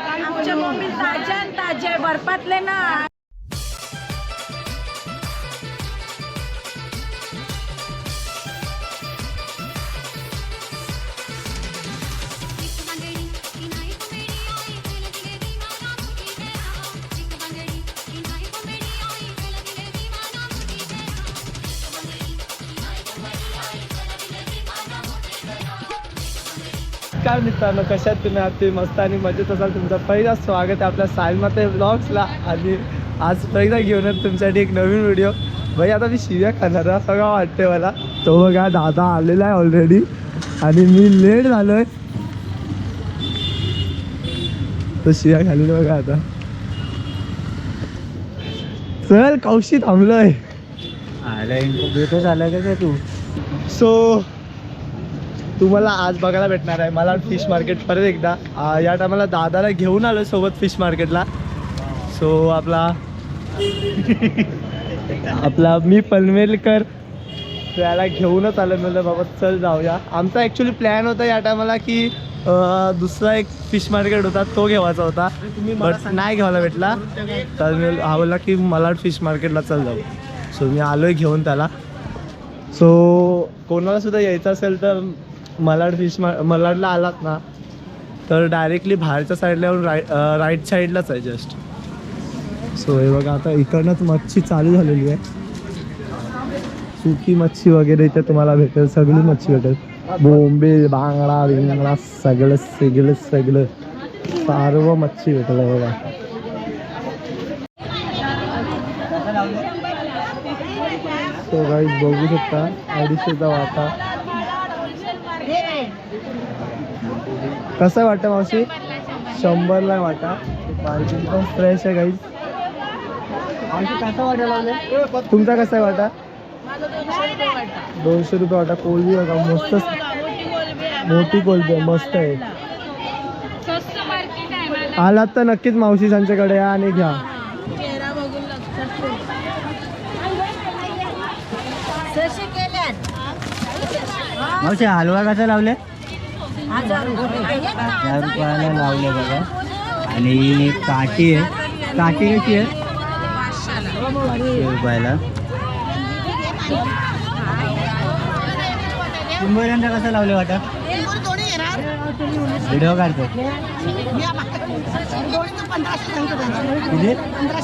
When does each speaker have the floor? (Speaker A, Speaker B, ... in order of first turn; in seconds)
Speaker A: 0.2-3.1, 134.0-134.7, 142.2-142.9, 146.8-147.6, 153.7-154.0
Speaker B: 27.2-40.1, 40.6-41.9, 45.0-46.2, 49.0-50.4, 53.7-54.3, 55.6-61.3, 62.1-63.0, 65.3-66.9, 67.7-81.7, 82.7-87.4, 88.3-91.6, 92.8-95.2, 97.0-103.7, 104.4-106.0, 111.5-114.0, 117.8-118.7, 119.3-122.2, 125.3-126.1, 128.0-130.0, 131.0-132.4, 135.0-137.2
Speaker C: 51.2-53.0, 63.9-64.5, 109.1-109.7, 123.7-124.8, 144.5-145.8, 147.9-149.5, 150.1-152.8, 154.4-155.2, 159.4-160.6, 162.6-163.3, 166.9-167.2